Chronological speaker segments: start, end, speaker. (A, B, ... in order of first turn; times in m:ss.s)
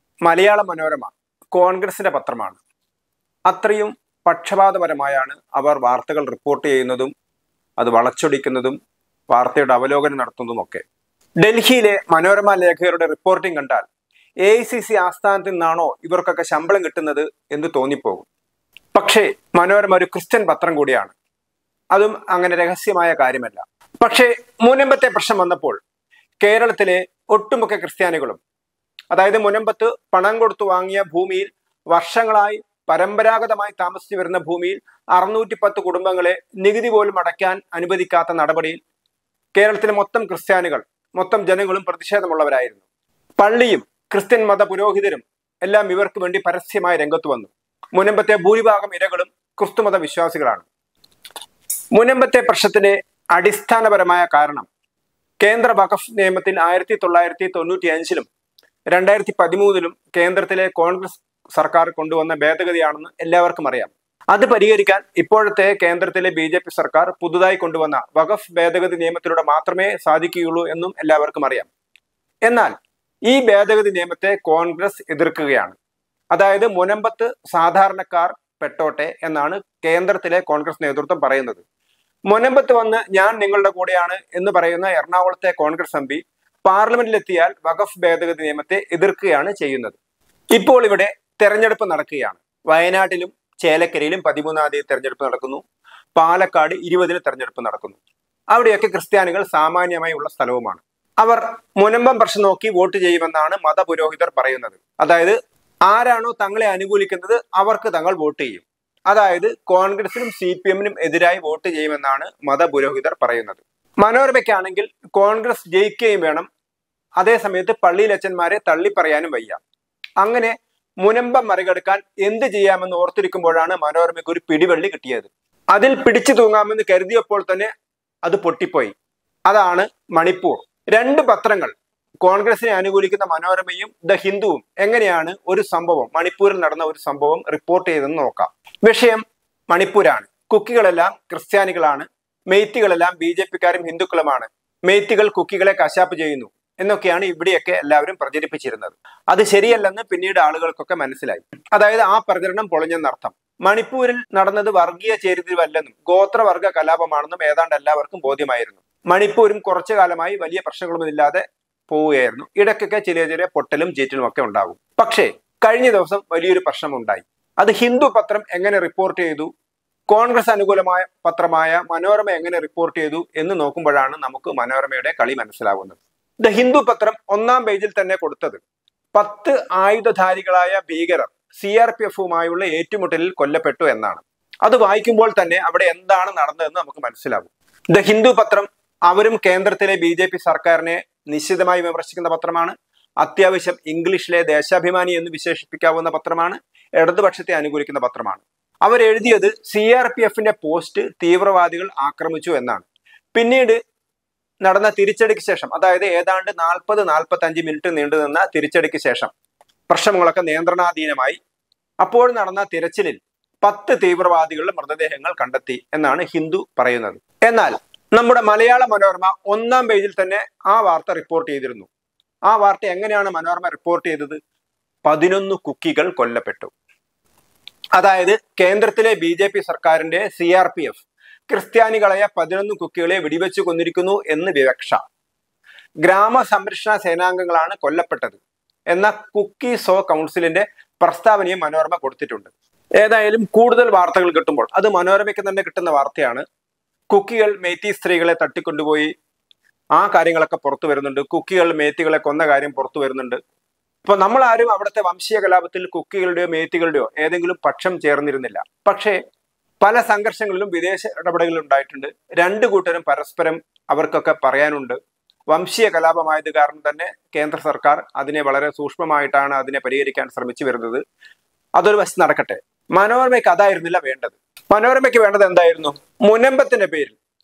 0:00.2-0:02.6 A
0:03.5-0:07.1 A
0:07.8-0:08.8 A
0:09.3-0:10.8 A
0:11.4-0:13.9 A
0:14.4-0:18.3 A
0:19.0-0:21.2 A
0:21.9-0:25.8 A
0:26.4-0:28.4 A
0:29.1-0:38.8 A
0:39.6-0:42.8 A
0:43.4-0:50.7 A
0:51.9-0:54.7 A
0:55.4-0:58.3 A
0:58.9-1:11.7 A
1:12.5-1:12.8 A
1:13.3-1:15.8 A
1:16.3-1:21.6 A
1:22.3-1:30.0 A
1:30.5-1:35.6 A
1:36.2-1:38.0 A
1:38.5-1:45.4 A
1:45.9-1:56.5 A
1:57.2-1:59.6 A
2:00.2-2:07.7 A
2:08.2-2:08.9 A
2:09.5-2:49.5 A
2:50.1-2:58.6 A
2:59.2-3:23.8 A
3:24.6-3:29.3 A
3:29.9-3:31.4 A
3:32.0-3:41.9 A
3:42.5-3:44.4 A
3:45.0-3:46.7 A
3:48.0-3:55.0 A
3:56.0-3:58.4 A
3:58.9-4:06.4 A
4:07.1-4:09.1 A
4:10.0-4:13.4 A
4:14.1-4:19.2 A
4:19.8-4:25.0 A
4:25.5-4:31.0 A
4:31.8-4:37.2 A